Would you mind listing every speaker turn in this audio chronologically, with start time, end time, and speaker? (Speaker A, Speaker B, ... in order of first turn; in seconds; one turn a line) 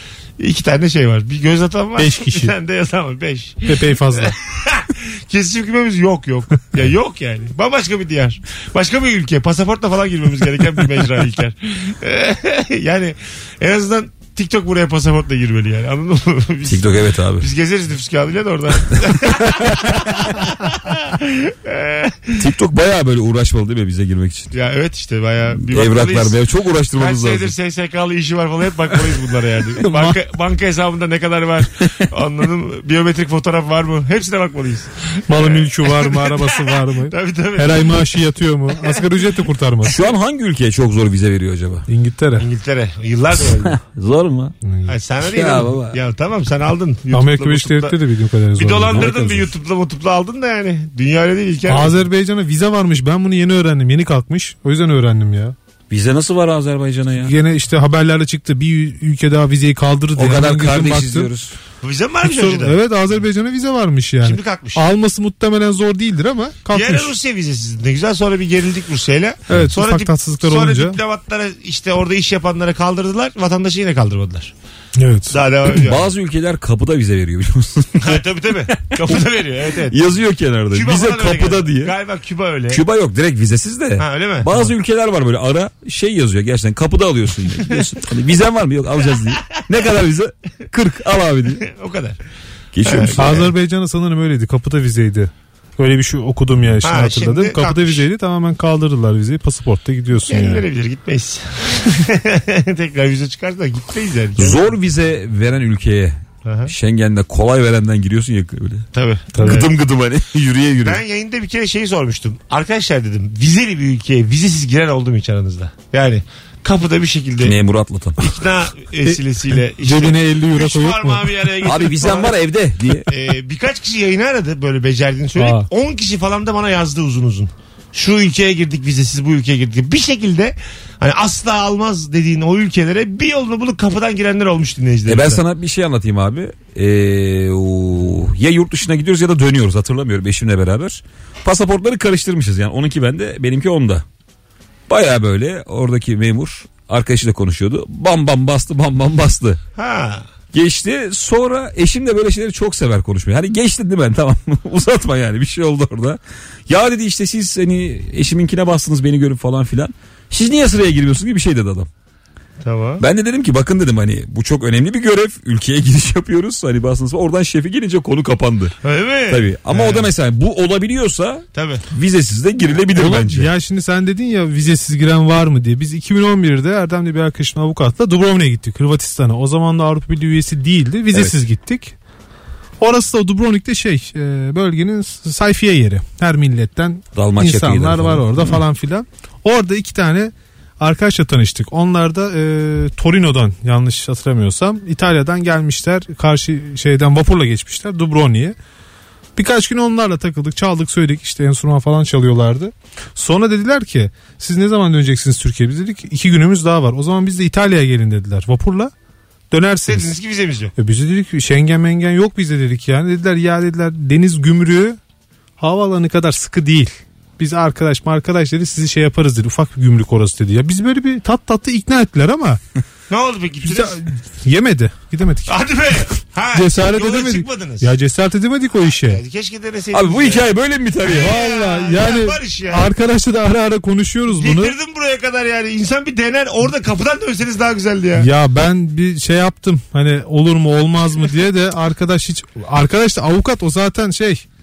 Speaker A: 0.4-22.4
Speaker B: 2.0-2.5
Speaker B: 3.7-4.3
Speaker C: 16.7-17.5
Speaker C: 19.4-19.7
Speaker C: 22.4-24.5
Speaker A: 24.5-26.4
Speaker C: 25.5-27.5
Speaker A: 27.0-38.1
Speaker B: 29.8-30.2
Speaker B: 35.3-40.0
Speaker A: 38.7-39.3
Speaker C: 39.8-41.9
Speaker B: 41.9-42.5
Speaker A: 42.4-43.8
Speaker C: 43.6-44.5
Speaker B: 44.6-44.9
Speaker A: 44.9-48.0
Speaker C: 45.2-46.0
Speaker B: 47.1-49.5
Speaker A: 48.5-52.0
Speaker B: 51.7-55.5
Speaker C: 55.9-57.3
Speaker B: 57.2-61.3
Speaker C: 60.1-61.5
Speaker A: 61.8-62.8
Speaker B: 62.2-67.1
Speaker A: 64.2-64.8
Speaker A: 66.7-74.5
Speaker B: 69.5-71.0
Speaker B: 75.0-75.3
Speaker A: 75.3-76.1
Speaker C: 75.7-78.2
Speaker A: 78.0-80.1
Speaker C: 79.9-81.9
Speaker A: 80.7-82.8
Speaker C: 82.7-91.6
Speaker A: 84.0-84.7
Speaker A: 89.3-89.6
Speaker A: 91.6-92.2
Speaker C: 92.7-93.5
Speaker A: 92.8-93.4
Speaker B: 93.2-100.6
Speaker A: 96.8-98.0
Speaker A: 100.3-104.7
Speaker C: 104.4-111.0
Speaker A: 106.4-106.7
Speaker A: 108.9-109.7
Speaker B: 109.3-109.7
Speaker A: 110.8-117.5
Speaker C: 117.4-118.2
Speaker A: 118.2-122.3
Speaker B: 119.8-121.7
Speaker C: 121.6-123.1
Speaker A: 123.0-135.4
Speaker B: 125.4-125.7
Speaker C: 135.1-144.0
Speaker C: 144.9-149.6
Speaker A: 149.8-150.3
Speaker C: 150.5-161.9
Speaker A: 162.6-163.0
Speaker C: 163.0-168.7
Speaker A: 168.8-170.1
Speaker C: 169.3-173.5
Speaker A: 171.5-171.8
Speaker B: 172.9-181.9
Speaker C: 181.1-181.4
Speaker B: 182.8-198.6
Speaker C: 187.1-188.6
Speaker B: 199.3-208.9
Speaker B: 209.5-210.1
Speaker A: 209.9-210.7
Speaker B: 210.8-215.0
Speaker B: 215.6-222.6
Speaker A: 223.1-224.0
Speaker B: 223.7-225.6
Speaker A: 225.5-227.9
Speaker B: 226.5-229.2
Speaker A: 229.1-230.4
Speaker C: 229.9-231.3
Speaker A: 231.1-232.9
Speaker B: 231.1-234.7
Speaker A: 234.3-238.3
Speaker B: 238.2-244.4